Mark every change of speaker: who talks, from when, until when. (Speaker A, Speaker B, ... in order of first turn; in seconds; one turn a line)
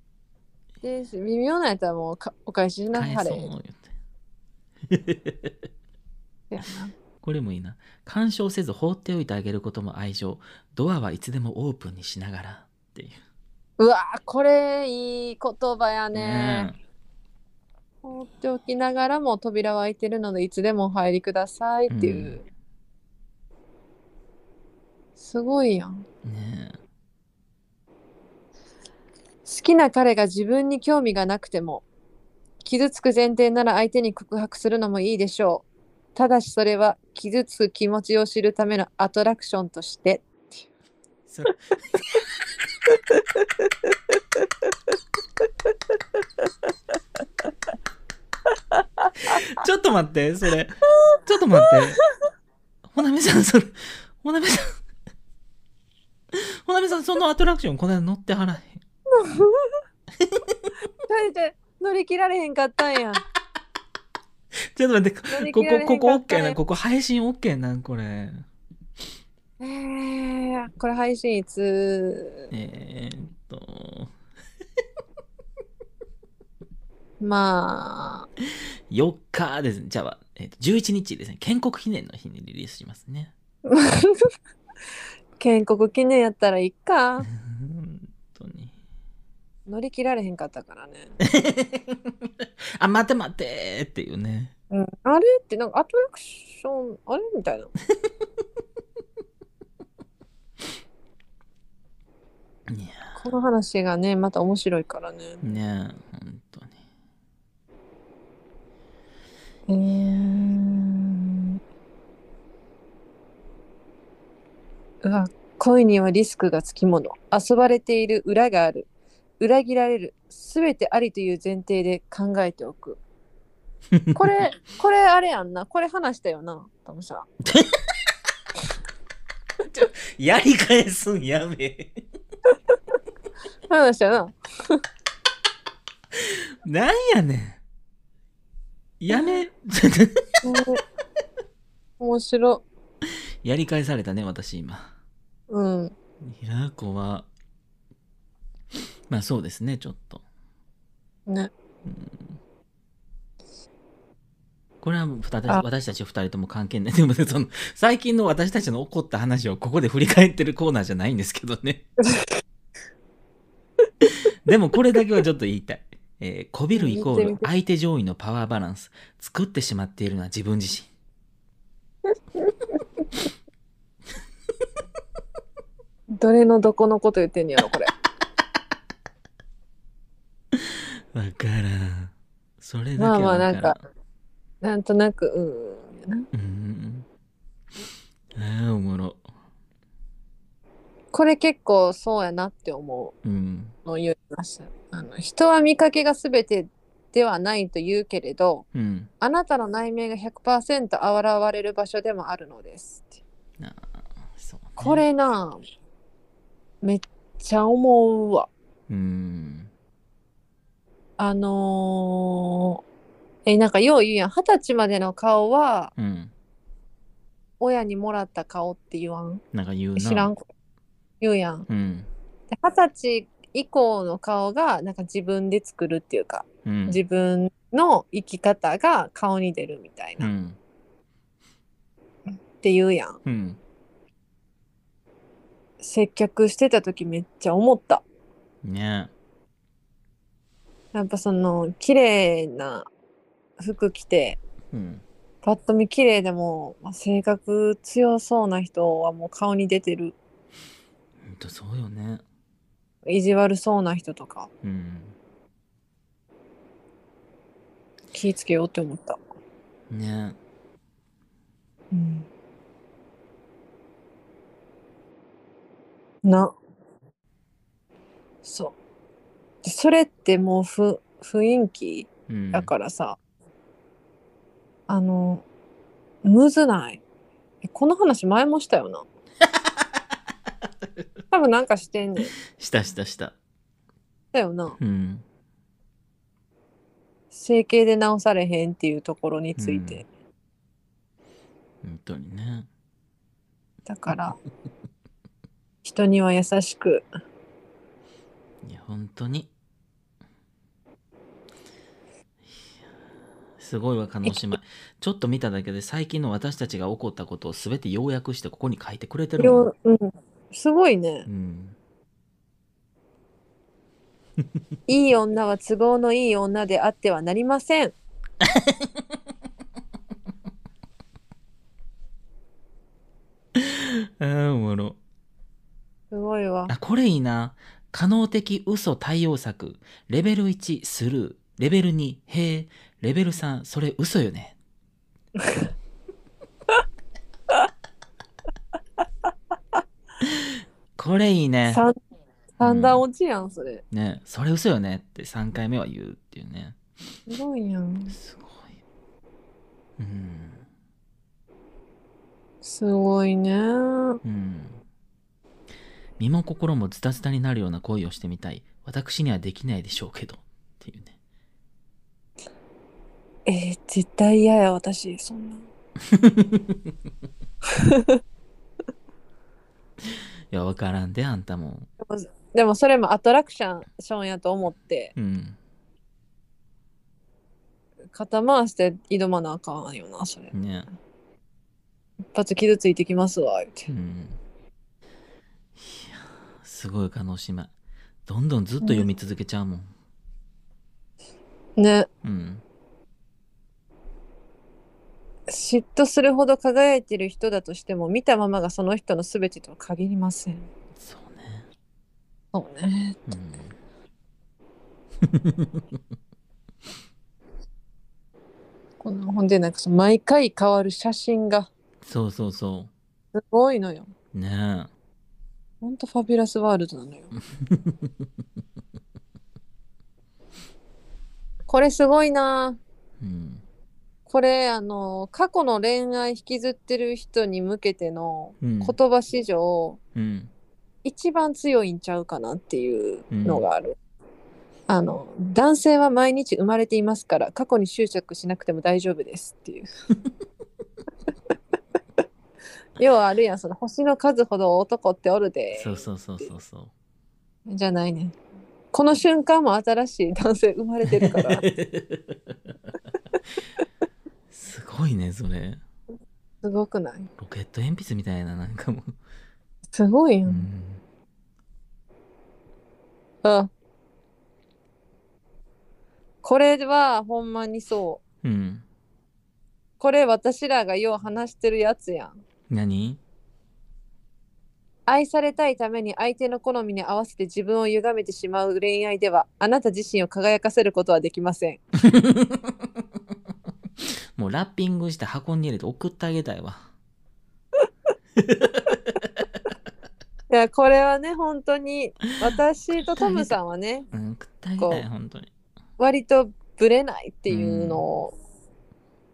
Speaker A: 0.8-3.5
Speaker B: 2.9-3.9
Speaker B: 4.9-5.6
Speaker A: 6.5-6.9
Speaker B: 7.2-13.2
Speaker A: 13.8-16.7
Speaker B: 16.1-16.8
Speaker A: 18.0-22.4
Speaker B: 21.9-22.4
Speaker A: 25.2-26.0
Speaker B: 26.2-26.8
Speaker A: 29.4-31.8
Speaker A: 32.6-40.5
Speaker B: 41.3-42.2
Speaker A: 43.1-43.4
Speaker A: 48.7-49.4
Speaker B: 49.2-52.0
Speaker B: 52.9-54.8
Speaker B: 56.3-58.8
Speaker A: 59.1-59.7
Speaker B: 60.2-60.6
Speaker A: 61.1-63.2
Speaker B: 64.7-68.4
Speaker A: 65.3-66.6
Speaker A: 69.6-72.5
Speaker B: 72.5-74.1
Speaker A: 77.2-78.3
Speaker B: 78.9-83.3
Speaker A: 83.6-84.2
Speaker A: 85.4-87.3
Speaker B: 87.3-88.7
Speaker A: 89.7-91.2
Speaker B: 91.2-94.5
Speaker A: 94.7-97.7
Speaker B: 102.7-103.2
Speaker A: 103.2-105.4
Speaker B: 105.4-106.8
Speaker A: 109.7-111.6
Speaker A: 115.0-118.9
Speaker A: 119.4-123.0
Speaker B: 123.9-124.3
Speaker A: 124.1-127.3
Speaker B: 129.7-132.0
Speaker A: 133.7-134.8
Speaker B: 136.1-137.6
Speaker B: 139.0-140.2
Speaker A: 139.1-139.4
Speaker A: 140.4-140.8
Speaker A: 142.0-142.6
Speaker B: 143.4-144.9
Speaker A: 145.5-145.9
Speaker B: 146.2-147.3
Speaker B: 149.1-150.2
Speaker B: 151.8-152.4
Speaker B: 154.8-161.8
Speaker A: 162.1-162.4
Speaker B: 164.0-170.9
Speaker A: 166.7-167.5
Speaker A: 176.2-177.9
Speaker B: 180.5-183.8
Speaker A: 183.0-183.8
Speaker A: 184.6-186.3
Speaker B: 186.3-187.1
Speaker B: 188.3-189.2
Speaker A: 191.1-193.1
Speaker B: 193.2-193.8
Speaker A: 193.8-198.6
Speaker B: 198.7-199.1
Speaker A: 199.2-203.2
Speaker B: 203.6-205.0
Speaker A: 204.8-205.6
Speaker A: 206.8-208.5
Speaker B: 208.9-209.7
Speaker A: 211.2-212.8
Speaker A: 213.4-215.9
Speaker B: 215.9-216.3
Speaker A: 217.6-219.4
Speaker B: 219.5-220.3
Speaker A: 219.9-220.4
Speaker A: 221.2-221.7
Speaker B: 221.7-222.1
Speaker A: 222.5-230.3
Speaker B: 226.6-227.0
Speaker B: 230.2-230.6
Speaker A: 232.6-233.2
Speaker B: 233.2-233.6
Speaker A: 235.8-238.0
Speaker B: 238.6-239.1
Speaker A: 240.9-242.9
Speaker A: 243.6-244.4
Speaker B: 244.7-245.0
Speaker A: 245.4-250.1
Speaker B: 251.2-252.2
Speaker A: 253.1-254.5
Speaker B: 254.6-255.1
Speaker A: 258.1-259.2
Speaker B: 259.9-260.4
Speaker A: 261.9-262.3
Speaker A: 266.2-266.5
Speaker A: 268.4-268.7
Speaker A: 269.6-273.2
Speaker B: 272.3-272.7
Speaker A: 274.9-275.4
Speaker A: 276.2-277.0
Speaker A: 277.6-279.1
Speaker B: 279.5-280.0
Speaker B: 280.6-281.1
Speaker A: 281.3-282.3
Speaker B: 282.5-283.4
Speaker A: 284.3-284.8
Speaker B: 284.8-285.2
Speaker A: 287.3-290.1
Speaker B: 289.6-290.0
Speaker B: 291.8-292.7
Speaker A: 293.9-294.4
Speaker A: 295.8-297.0
Speaker B: 298.6-299.5
Speaker B: 303.6-309.7
Speaker A: 309.4-311.3
Speaker B: 311.2-311.8
Speaker A: 314.9-317.9
Speaker B: 318.4-319.0
Speaker B: 323.5-325.0
Speaker A: 326.1-326.7
Speaker B: 326.7-334.6
Speaker B: 340.2-341.8
Speaker A: 341.7-341.9
Speaker A: 342.6-343.8
Speaker B: 342.6-343.0
Speaker B: 343.9-346.8
Speaker A: 347.3-348.2
Speaker B: 348.1-348.8
Speaker B: 350.0-350.6
Speaker A: 352.6-354.2
Speaker B: 354.2-354.8
Speaker B: 356.2-361.2
Speaker A: 363.4-365.7
Speaker B: 366.0-366.9
Speaker A: 367.7-368.2
Speaker B: 370.1-371.9
Speaker A: 372.0-375.1
Speaker B: 375.1-375.6
Speaker A: 378.1-380.5
Speaker B: 380.5-380.9
Speaker A: 382.3-383.9
Speaker B: 383.9-384.4
Speaker B: 385.8-387.7
Speaker B: 388.2-389.9
Speaker A: 388.8-389.1
Speaker A: 391.8-392.1
Speaker B: 392.2-392.6
Speaker A: 395.5-400.7
Speaker B: 400.9-401.7
Speaker A: 402.5-403.2
Speaker B: 403.3-403.7
Speaker B: 405.2-406.0
Speaker A: 409.0-411.7
Speaker B: 412.0-412.9
Speaker A: 413.3-414.1
Speaker B: 414.3-414.9
Speaker A: 415.8-417.4
Speaker B: 417.6-418.1
Speaker A: 421.7-422.8
Speaker B: 423.2-423.6
Speaker A: 424.3-430.0
Speaker B: 428.6-428.9
Speaker B: 430.1-430.5
Speaker A: 431.0-434.0
Speaker B: 433.3-433.6
Speaker A: 434.9-439.9
Speaker A: 443.0-446.5
Speaker B: 445.7-446.9
Speaker A: 447.7-448.4
Speaker A: 448.9-451.6
Speaker B: 451.1-452.7
Speaker B: 454.5-455.8
Speaker A: 456.6-457.3
Speaker B: 457.4-459.1
Speaker A: 459.9-460.7
Speaker B: 460.4-461.0
Speaker A: 463.4-463.7
Speaker A: 466.4-468.2
Speaker B: 468.4-468.8
Speaker A: 470.0-472.4
Speaker B: 472.7-473.2
Speaker A: 475.1-481.8
Speaker B: 482.0-482.9
Speaker B: 484.4-486.9
Speaker B: 488.4-489.2
Speaker A: 490.5-494.1
Speaker B: 493.1-493.6
Speaker B: 494.1-495.5
Speaker A: 494.8-495.1
Speaker A: 496.0-498.3
Speaker B: 497.5-498.0